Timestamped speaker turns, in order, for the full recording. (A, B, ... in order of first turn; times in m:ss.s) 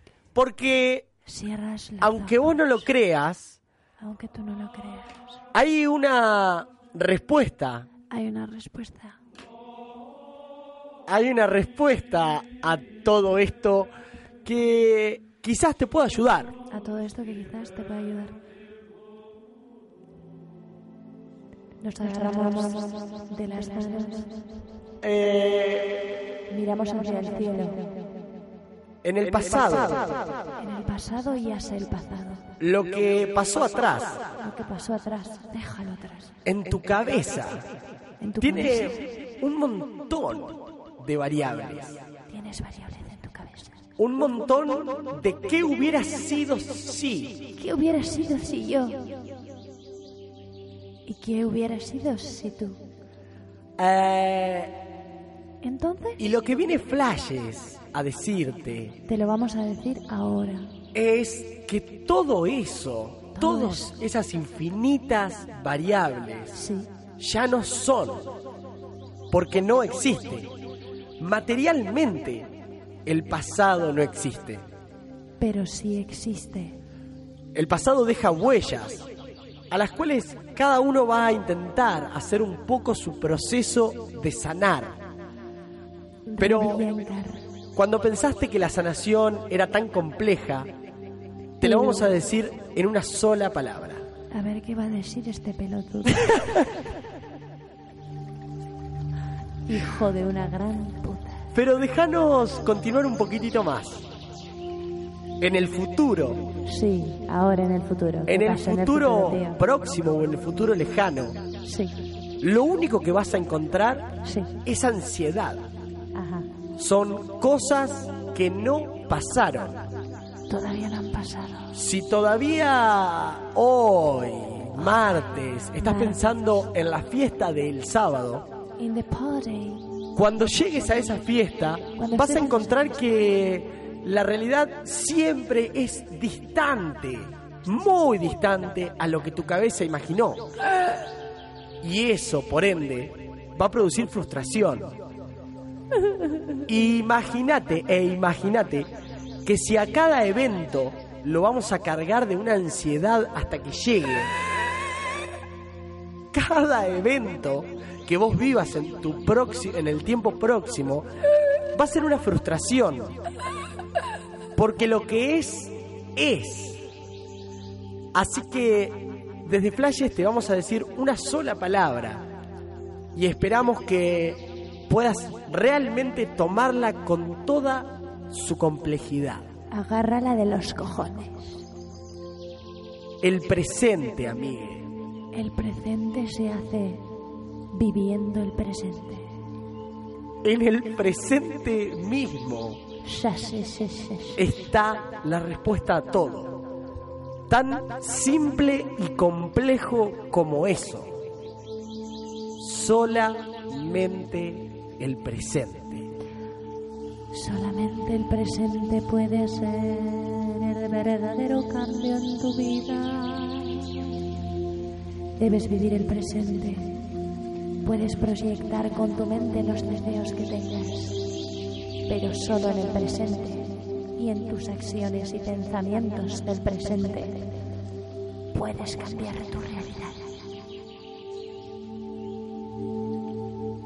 0:00.3-0:01.1 A
0:01.2-0:02.6 B
0:02.0-0:03.6 A
0:04.0-0:05.4 B
0:05.5-0:07.9 A
0:08.1-0:09.2 B
0:11.1-0:13.9 A
0:14.4-0:16.5 A
0:16.7-0:18.4 B
0:21.8-0:24.5 B
0:25.0-0:26.0 A
0:26.5-0:27.9 B
0:29.0-0:30.2 A
0:30.6-0:32.4 B
0:32.6-0:34.3 A
0:34.4-0:36.3 B
0:36.4-0:37.6 A
0:38.2-0:39.0 B
0:38.4-0:42.0 A
0:42.3-0:43.8 B
0:44.0-0:47.5 A
0:47.6-0:49.3 B
0:51.0-0:52.8 B
0:53.8-0:54.8 A
0:55.6-0:56.2 B
0:56.2-0:59.0 A
0:59.0-1:00.7 B
1:00.9-1:06.6 A
1:03.4-1:04.0 B
1:06.5-1:06.9 B
1:07.2-1:08.3 A
1:09.3-1:10.5 A
1:11.2-1:12.5 A
1:13.0-1:14.6 A
1:15.4-1:16.8 B
1:17.5-1:19.1 A
1:19.7-1:25.0 A
1:26.3-1:27.4 B
1:26.4-1:26.8 A
1:27.8-1:30.7 A
1:31.6-1:34.1 A
1:31.6-1:32.1 B
1:34.3-1:36.7 B
1:39.6-1:41.5 B
1:41.5-1:44.1 A
1:45.4-1:46.5 A
1:46.6-1:49.6 B
1:48.3-1:51.4 A
1:51.6-1:52.0 B
1:52.4-1:55.7 A
1:54.2-1:54.5 B
1:56.1-1:56.5 B
1:56.8-1:59.8 A
2:00.5-2:01.7 B
2:01.7-2:08.5 A
2:05.8-2:06.2 B
2:08.8-2:09.8 B
2:10.1-2:20.5 A
2:12.0-2:12.8 B
2:21.8-2:24.9 A
2:26.6-2:28.9 A
2:29.4-2:34.4 A
2:36.3-2:41.1 A
2:41.7-2:43.2 A
2:44.5-2:46.8 A
2:48.1-2:52.2 A
2:53.1-2:59.5 A
2:59.7-3:01.6 B
3:03.2-3:04.9 A
3:05.3-3:07.1 B
3:07.7-3:09.3 B
3:10.4-3:12.8 A
3:13.0-3:14.4 B
3:14.4-3:16.6 A
3:17.5-3:21.1 A
3:22.6-3:26.1 A
3:27.3-3:34.2 B
3:35.4-3:37.0 B
3:37.8-3:41.2 B
3:42.1-3:47.5 B
3:48.5-3:50.4 B